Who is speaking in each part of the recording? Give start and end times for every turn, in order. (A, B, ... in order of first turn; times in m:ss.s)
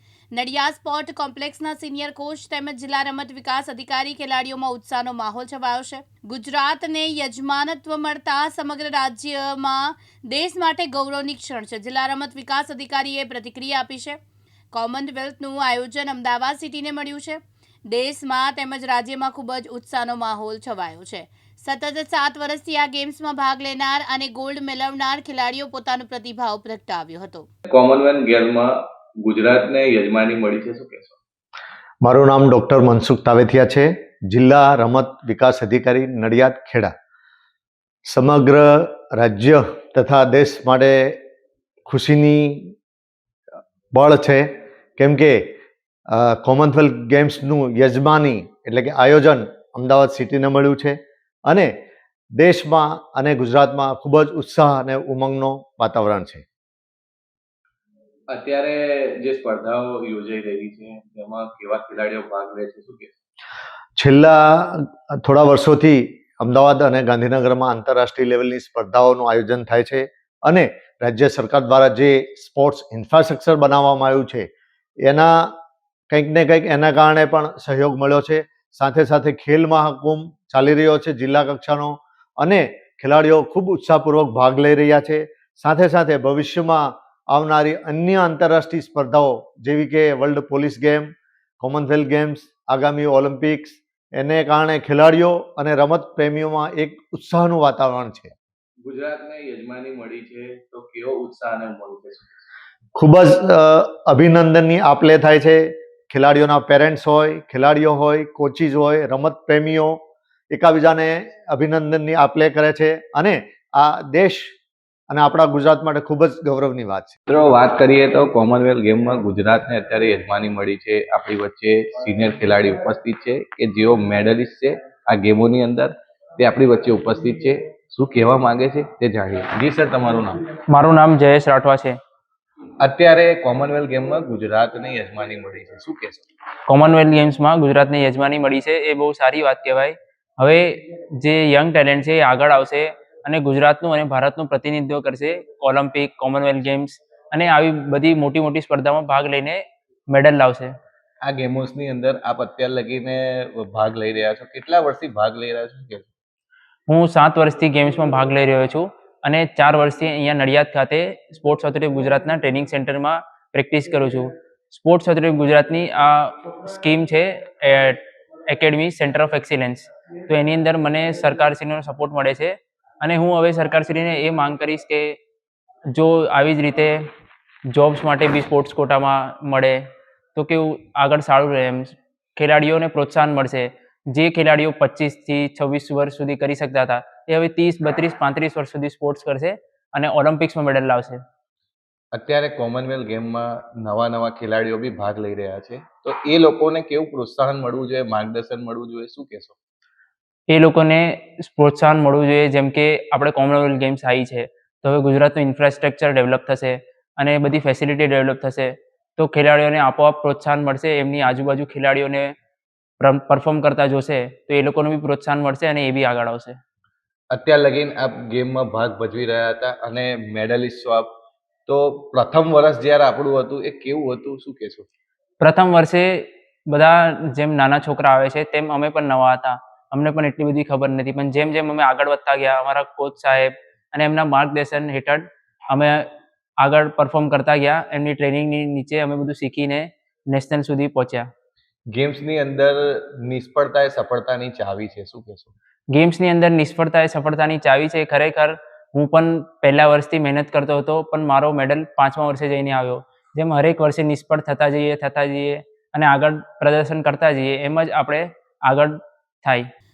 0:00.3-0:14.2 A
0:14.7-0:27.4 A
0:27.7-0:28.7 B
0:29.2-0:31.2 B
0:32.0-0:36.9 C
0:38.1-0:41.2 C
0:41.9-0:42.7 C
0:43.9-0:45.5 C
0:46.1-0:51.7 C
0:52.4-0:56.4 C
0:58.3-1:03.1 B
1:04.0-1:14.5 C
1:15.0-1:15.5 C
1:16.1-1:38.3 C
1:38.8-1:42.5 B
1:43.0-1:50.0 C
1:50.5-1:54.5 C
1:55.1-1:57.1 C
1:57.3-2:10.4 B
2:10.7-2:12.0 D
2:12.8-2:16.2 B
2:16.7-2:30.7 D
2:31.2-2:36.1 B
2:36.9-2:55.2 D
2:55.9-2:57.1 D
2:57.7-2:59.8 D
3:00.3-3:11.2 D
3:12.1-3:19.6 B
3:20.5-3:32.3 D
3:33.0-3:36.6 D
3:37.3-3:41.1 B
3:41.7-3:44.9 B
3:45.4-3:56.1 D
3:56.6-4:01.3 D
4:01.9-4:05.5 B
4:05.9-4:19.7 D